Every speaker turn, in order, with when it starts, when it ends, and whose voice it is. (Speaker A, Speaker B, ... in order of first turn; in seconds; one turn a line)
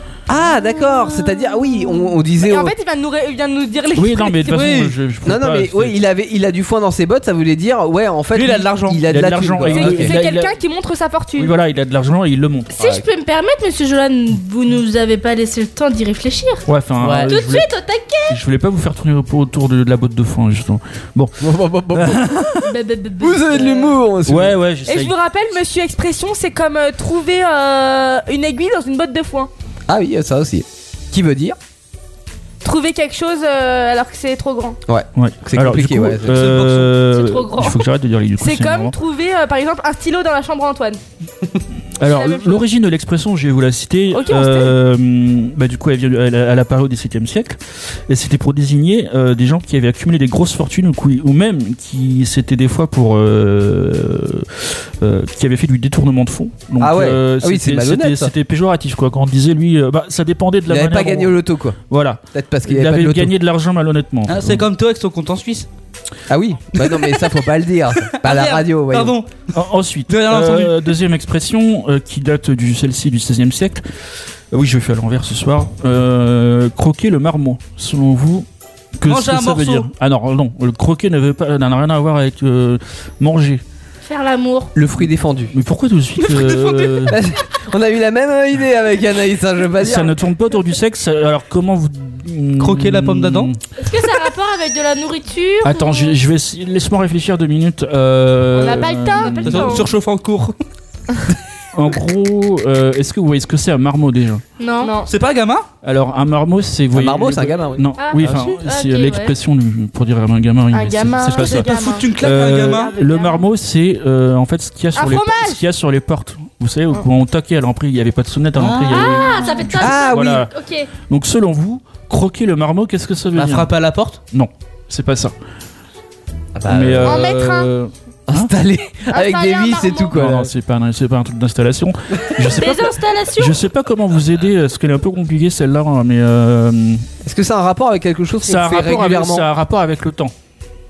Speaker A: 0.3-2.7
Speaker B: 0.8-4.5
Speaker C: 4.0-5.9
Speaker D: 4.4-4.9
Speaker A: 5.2-10.2
Speaker D: 8.3-9.0
Speaker C: 9.1-10.6
Speaker B: 9.7-11.5
Speaker C: 11.4-12.7
Speaker E: 12.7-16.6
Speaker A: 12.8-13.0
Speaker C: 16.6-17.7
Speaker D: 17.0-17.3
Speaker E: 17.3-18.4
Speaker C: 18.3-22.7
Speaker A: 21.4-22.2
Speaker E: 22.6-23.9
Speaker A: 23.2-24.6
Speaker C: 24.2-25.1
Speaker B: 24.9-29.5
Speaker A: 29.9-31.6
Speaker B: 32.6-34.8
Speaker A: 34.9-36.4
Speaker C: 35.1-38.9
Speaker D: 36.2-37.0
Speaker E: 37.2-37.7
Speaker B: 38.4-41.0
Speaker C: 42.0-47.6
Speaker B: 42.0-42.6
Speaker B: 44.1-44.7
Speaker C: 48.1-64.6
Speaker A: 56.8-58.3
Speaker A: 60.7-61.8
Speaker A: 62.3-63.3
Speaker D: 64.2-65.7
Speaker A: 66.3-69.2
Speaker D: 66.8-67.4
Speaker D: 68.2-69.3
Speaker C: 69.5-73.8
Speaker D: 70.1-71.0
Speaker C: 74.5-78.5
Speaker C: 79.0-83.6
Speaker D: 79.1-79.9
Speaker E: 84.0-84.7
Speaker A: 84.7-85.5
Speaker C: 85.5-87.2
Speaker D: 86.2-87.1
Speaker A: 87.1-90.1
Speaker C: 89.8-93.6
Speaker D: 92.6-93.5
Speaker E: 93.8-96.2
Speaker C: 95.6-99.8
Speaker E: 98.5-99.9
Speaker B: 98.5-99.8
Speaker D: 99.4-100.5
Speaker C: 101.7-104.4
Speaker E: 104.6-104.9
Speaker B: 104.8-105.1
Speaker D: 105.0-105.7
Speaker C: 105.8-123.7
Speaker A: 106.9-108.4
Speaker E: 108.0-109.3
Speaker B: 110.7-112.1
Speaker D: 111.3-112.9
Speaker E: 113.0-113.4
Speaker B: 114.9-115.6
Speaker D: 118.5-119.5
Speaker E: 118.9-120.9
Speaker A: 119.8-120.5
Speaker D: 123.3-124.2
Speaker C: 124.3-125.3
Speaker A: 126.5-127.2
Speaker C: 126.6-128.5
Speaker B: 127.0-127.7
Speaker A: 128.3-130.5
Speaker B: 129.1-130.2
Speaker C: 130.1-137.0
Speaker E: 132.6-133.6
Speaker A: 137.2-139.5
Speaker C: 138.4-140.3